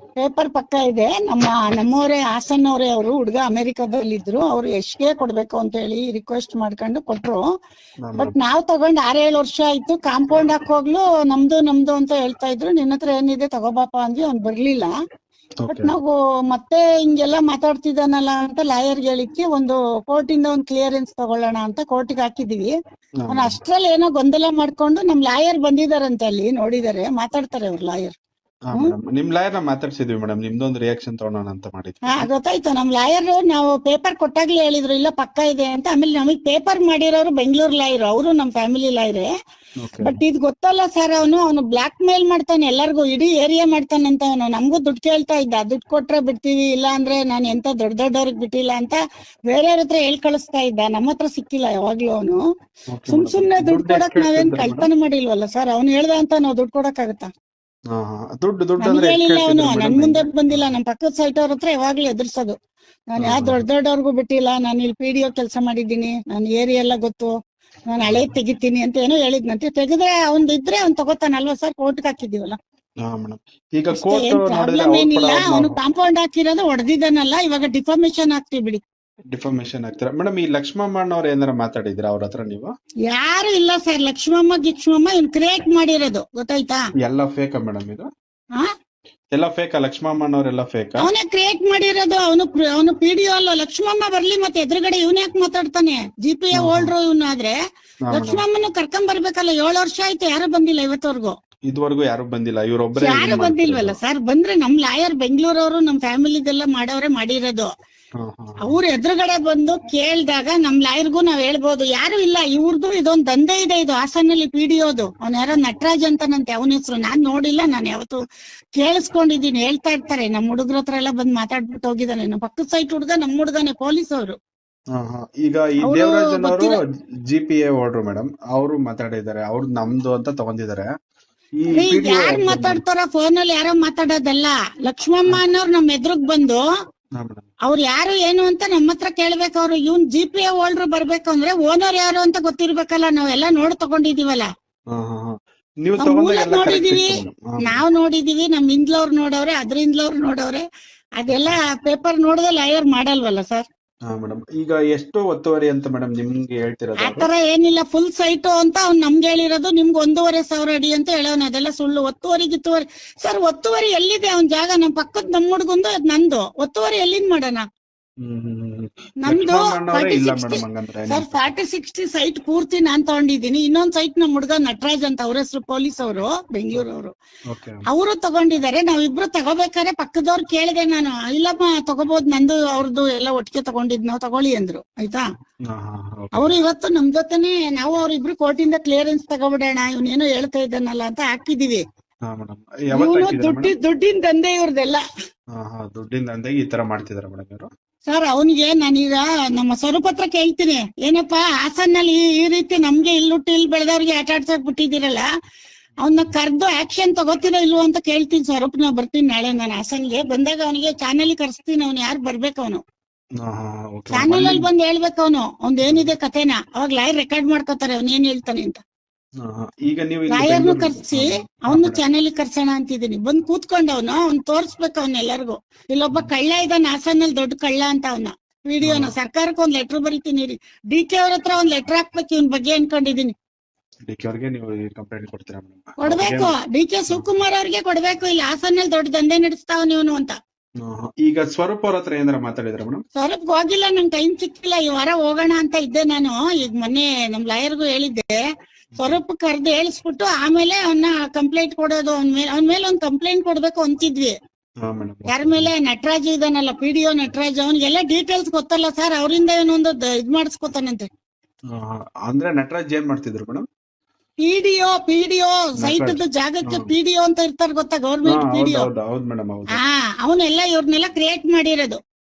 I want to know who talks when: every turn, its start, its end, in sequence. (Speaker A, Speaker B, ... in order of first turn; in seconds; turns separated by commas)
Speaker A: 0.2-7.4, Speaker B: 8.0-8.3, Speaker A: 8.2-14.9, Speaker B: 15.6-15.9, Speaker A: 15.7-22.7, Speaker B: 23.2-23.6, Speaker A: 23.3-28.2, Speaker B: 28.7-32.3, Speaker A: 32.1-39.3, Speaker B: 39.8-40.2, Speaker A: 40.0-52.4, Speaker B: 52.9-54.9, Speaker A: 53.1-57.3, Speaker B: 57.9-60.7, Speaker A: 58.8-62.6, Speaker A: 63.1-67.3, Speaker B: 63.2-63.6, Speaker A: 67.9-72.6, Speaker B: 68.0-68.3, Speaker B: 73.0-75.8, Speaker A: 73.9-78.8, Speaker B: 79.3-82.7, Speaker A: 83.1-86.8, Speaker B: 87.0-88.1, Speaker B: 89.3-91.1, Speaker A: 91.0-97.5, Speaker B: 96.6-96.9, Speaker B: 98.1-98.4, Speaker A: 98.1-101.4, Speaker B: 101.7-104.0, Speaker A: 103.0-107.7, Speaker B: 108.2-108.8, Speaker A: 108.6-118.2, Speaker A: 118.8-124.4, Speaker B: 124.9-130.9, Speaker A: 125.8-126.8, Speaker B: 131.6-132.8, Speaker A: 131.7-136.6, Speaker B: 137.2-137.4, Speaker A: 137.7-144.5, Speaker B: 144.9-147.8, Speaker A: 146.0-150.6, Speaker A: 151.2-153.7, Speaker B: 151.3-151.6, Speaker B: 154.1-157.3, Speaker A: 157.0-167.7, Speaker B: 168.2-171.5, Speaker A: 169.2-177.1, Speaker B: 177.5-177.8, Speaker A: 177.9-185.2, Speaker B: 185.7-186.6, Speaker A: 186.3-191.8, Speaker B: 192.3-193.7, Speaker A: 192.9-195.0, Speaker B: 195.6-197.7, Speaker A: 198.1-205.2, Speaker A: 206.0-212.8, Speaker B: 213.4-214.7, Speaker A: 214.1-218.8, Speaker B: 215.8-216.1, Speaker B: 219.4-222.0, Speaker A: 220.3-233.3, Speaker B: 228.8-229.1, Speaker B: 234.1-236.6, Speaker A: 236.0-240.3, Speaker B: 240.8-243.0, Speaker A: 243.2-248.3, Speaker A: 249.0-254.3, Speaker B: 254.8-255.7, Speaker A: 255.3-261.1, Speaker B: 261.7-263.6, Speaker A: 264.5-268.9, Speaker B: 265.8-266.9, Speaker B: 268.3-269.8, Speaker A: 269.7-272.0